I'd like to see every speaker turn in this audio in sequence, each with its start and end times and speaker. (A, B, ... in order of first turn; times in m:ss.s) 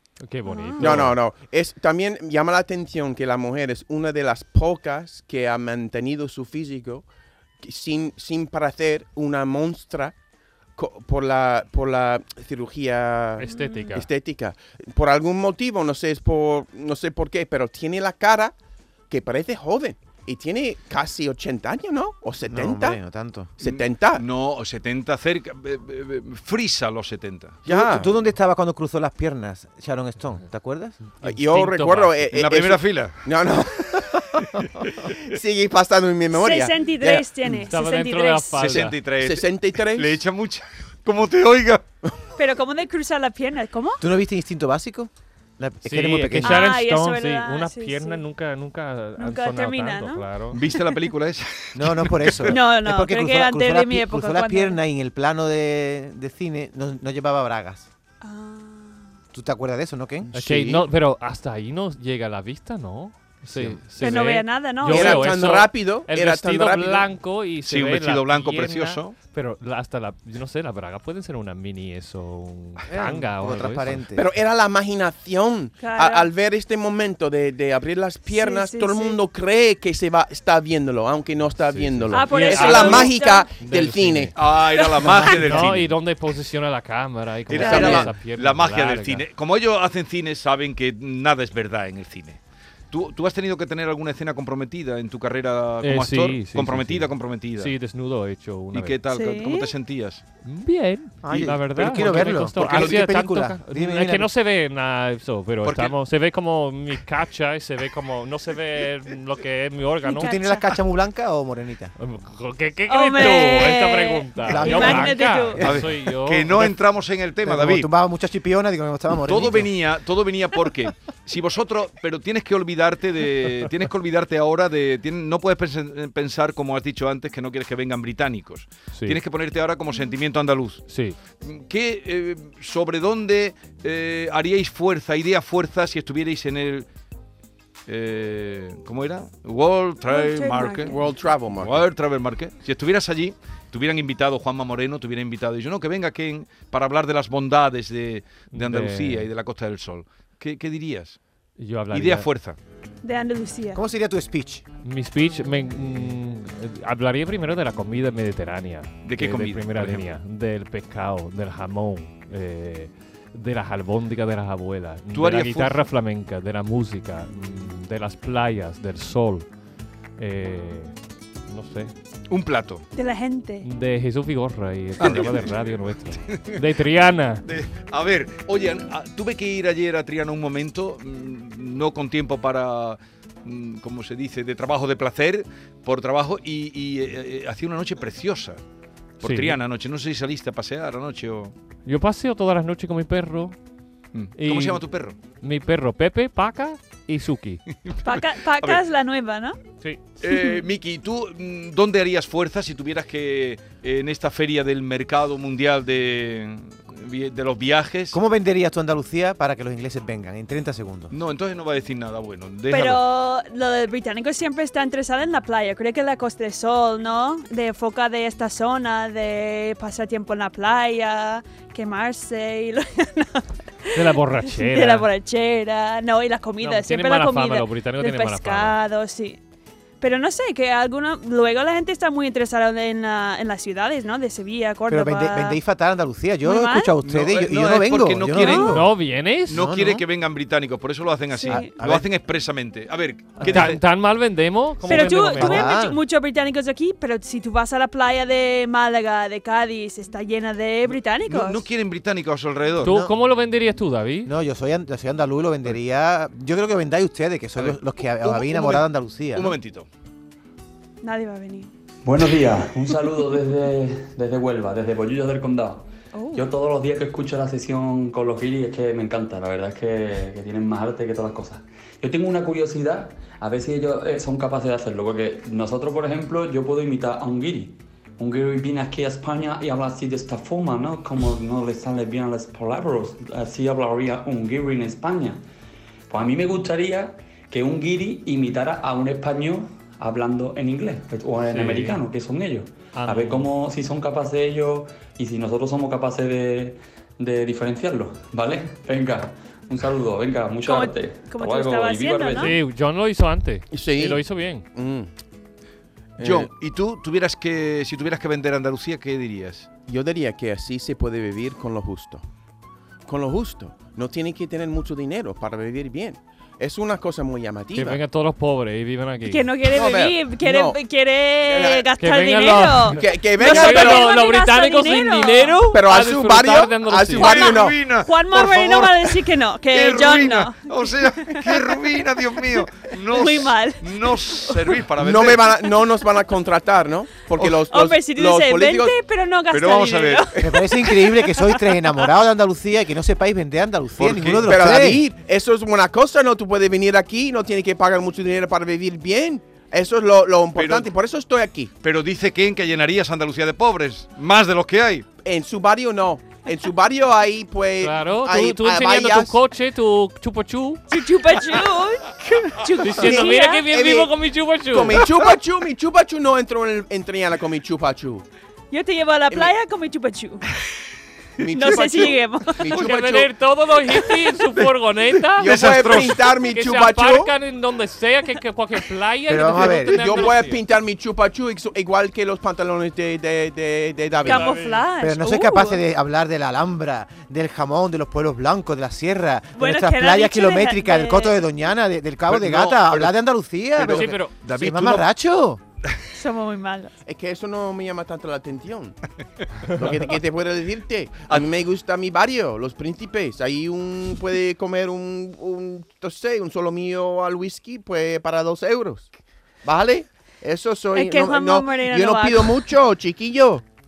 0:00.2-0:01.2 A
0:00.4-0:01.0 B
0:00.8-0:07.0 C
0:07.6-0:10.1 C
0:10.8-0:18.5 C
0:13.4-0:14.1 A
0:13.4-0:13.9 B
0:19.1-0:23.0 C
0:22.5-0:23.5 D
0:23.6-0:24.2 C
0:23.6-0:27.6 E
0:27.6-0:28.1 C
0:27.7-0:31.0 D
0:31.2-0:32.2 A
0:31.2-0:34.4 C
0:32.3-0:33.2 E
0:34.4-0:35.1 E
0:35.0-0:37.6 C
0:36.3-0:38.7 B
0:37.6-0:39.0 A
0:38.6-0:41.8 E
0:39.2-0:40.2 C
0:42.4-0:44.0 B
0:44.0-0:46.8 D
0:45.8-0:50.6 A
0:46.4-0:48.2 B
0:49.2-0:50.2 B
0:50.5-0:52.5 E
0:51.7-0:57.9 D
0:52.5-0:54.8 B
0:58.2-0:59.0 B
0:59.3-1:00.8 D
1:00.3-1:14.0 A
1:03.4-1:03.8 D
1:04.0-1:05.4 B
1:04.8-1:07.1 C
1:07.6-1:09.2 E
1:12.9-1:14.2 D
1:14.2-1:24.3 C
1:15.8-1:16.3 B
1:18.3-1:19.2 B
1:21.5-1:23.1 A
1:22.1-1:23.5 B
1:24.3-1:26.0 E
1:25.0-1:25.3 C
1:25.3-1:29.2 A
1:27.5-1:32.4 E
1:27.5-1:28.0 B
1:27.6-1:28.1 C
1:32.9-1:37.8 E
1:35.8-1:39.0 A
1:38.7-1:40.2 E
1:39.1-1:39.7 B
1:40.4-1:50.4 A
1:41.2-1:44.3 D
1:41.8-1:43.1 E
1:45.6-1:45.9 E
1:50.1-1:50.6 B
1:50.2-1:51.9 D
1:52.0-1:56.7 A
1:52.9-1:55.6 B
1:54.5-1:55.8 D
1:55.6-1:57.9 E
1:57.4-1:59.7 D
1:59.2-2:10.9 E
2:08.9-2:09.2 A
2:10.9-2:11.2 A
2:11.4-2:16.9 E
2:17.9-2:20.9 E
2:20.1-2:21.0 B
2:20.9-2:21.8 C
2:21.6-2:31.2 E
2:28.5-2:29.3 A
2:31.6-2:32.3 A
2:31.9-2:32.6 E
2:33.0-2:33.8 B
2:33.7-2:34.6 D
2:34.8-2:49.5 A
2:39.0-2:40.1 E
2:45.1-2:45.8 E
2:50.2-2:50.9 A
2:51.5-2:51.9 A
2:52.3-2:52.8 E
2:52.9-2:53.6 B
2:53.6-2:57.4 A
2:55.0-2:56.6 E
2:57.4-3:08.6 E
3:09.2-3:11.5 E
3:09.2-3:09.6 A
3:11.9-3:13.5 A
3:14.1-3:15.2 E
3:14.4-3:14.8 A
3:15.4-3:17.6 A
3:17.8-3:18.8 E
3:18.0-3:19.6 B
3:20.2-3:28.2 E
3:20.3-3:20.6 B
3:28.1-3:31.1 D
3:31.1-3:33.0 E
3:32.7-3:49.4 B
3:43.9-3:45.1 A
3:46.6-3:48.8 A
3:50.0-3:55.6 B
3:54.9-3:58.9 D
3:56.4-3:56.9 B
3:57.0-3:58.8 E
3:58.4-3:58.8 B
3:58.7-3:59.6 A
3:59.5-4:00.0 D
3:59.5-4:03.8 E
4:01.3-4:01.7 B
4:01.5-4:02.1 D
4:03.4-4:03.8 D
4:03.4-4:05.7 A
4:04.9-4:11.6 B
4:04.9-4:06.0 D
4:11.2-4:12.9 E
4:12.8-4:14.3 A
4:12.8-4:13.2 D
4:14.2-4:19.6 D
4:17.6-4:19.9 E
4:21.0-4:21.7 B
4:22.0-4:45.4 F
4:26.1-4:26.4 B
4:46.1-5:02.6 F
4:51.4-4:52.0 A
4:52.9-4:53.5 A
5:00.6-5:02.6 B
5:02.4-5:04.6 A
5:03.7-5:05.1 C
5:06.2-5:06.5 C
5:06.2-5:09.7 E
5:09.9-5:12.2 C
5:13.0-5:18.0 C
5:17.7-5:19.5 A
5:19.2-5:25.6 B
5:19.7-5:20.8 C
5:21.4-5:21.9 C
5:22.0-5:27.4 A
5:23.0-5:24.1 C
5:25.7-5:27.8 C
5:27.2-5:35.5 E
5:27.2-5:31.8 B
5:33.1-5:34.8 B
5:35.0-5:38.9 C
5:37.7-5:41.6 B
5:39.5-5:40.3 E
5:40.4-5:45.0 D
5:44.0-5:44.8 E
5:44.4-5:51.7 C
5:50.5-5:50.9 E
5:51.8-5:55.0 E
5:55.2-5:59.4 C
5:57.8-6:00.8 A
6:00.9-6:03.7 B
6:02.8-6:05.0 A
6:03.0-6:04.1 C
6:04.7-6:08.2 C
6:08.7-6:10.4 B
6:11.4-6:13.3 C
6:11.5-6:12.9 B
6:12.6-6:20.6 A
6:15.4-6:17.3 C
6:15.4-6:16.2 E
6:19.3-6:20.2 D
6:19.9-6:24.6 C
6:24.2-6:25.8 B
6:24.2-6:24.8 A
6:25.0-6:35.6 D
6:29.6-6:31.4 B
6:32.3-6:33.2 E
6:33.8-6:35.1 E
6:33.8-6:34.3 A
6:36.1-6:37.0 B
6:37.0-6:39.0 C
6:39.6-6:49.1 C
6:49.6-6:53.6 C
6:50.9-6:52.5 B